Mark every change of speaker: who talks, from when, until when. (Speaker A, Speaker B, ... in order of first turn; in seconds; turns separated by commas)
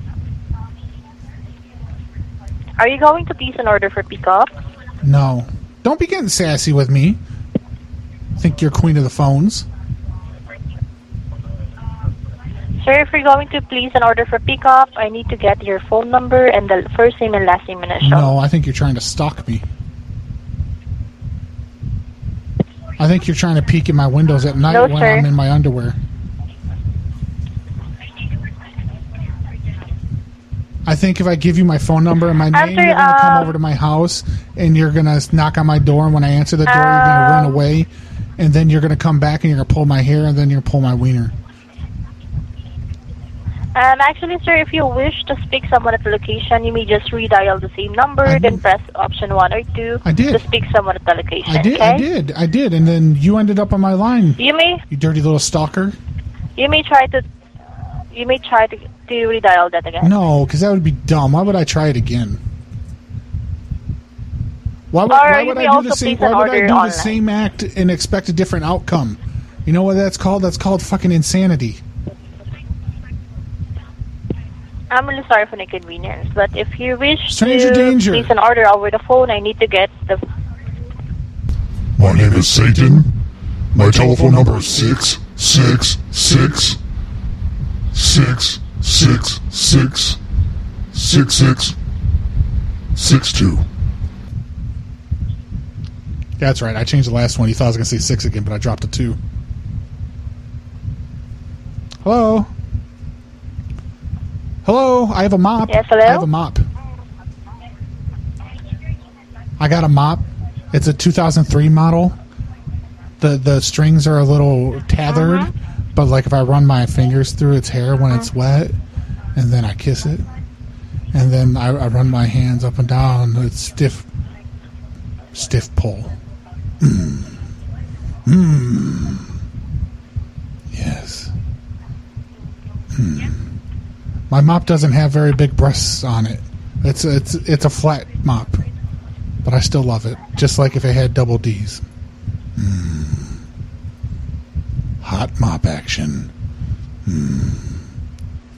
Speaker A: 2.8-4.5, Speaker B: 5.0-7.2, Speaker B: 8.4-9.7, Speaker A: 12.8-18.3, Speaker B: 18.0-19.6, Speaker B: 23.0-26.0, Speaker A: 24.7-25.2, Speaker B: 30.9-41.3, Speaker A: 32.5-33.5, Speaker A: 36.7-37.6, Speaker A: 43.8-52.1, Speaker B: 48.2-48.6, Speaker B: 50.0-50.5, Speaker B: 51.5-56.0, Speaker A: 54.4-54.8, Speaker A: 56.6-57.2, Speaker A: 58.1-60.1, Speaker B: 60.0-62.4, Speaker B: 64.9-71.8, Speaker A: 65.1-67.2, Speaker A: 74.9-80.2, Speaker B: 77.3-78.3, Speaker C: 82.0-83.1, Speaker C: 83.7-86.8, Speaker B: 83.8-84.9, Speaker C: 87.9-90.2, Speaker C: 90.9-91.8, Speaker C: 93.0-93.7, Speaker B: 96.4-99.2, Speaker B: 102.0-102.5, Speaker B: 104.6-106.7, Speaker A: 105.7-106.3, Speaker B: 109.6-112.2, Speaker B: 113.2-118.8, Speaker B: 119.3-120.3, Speaker B: 121.1-124.1, Speaker B: 125.3-126.2, Speaker B: 126.8-127.4, Speaker B: 128.2-129.3, Speaker B: 130.7-131.3, Speaker B: 132.9-133.4, Speaker B: 134.3-138.6, Speaker B: 139.4-141.8, Speaker B: 142.6-143.4, Speaker B: 145.0-146.3, Speaker B: 147.1-147.8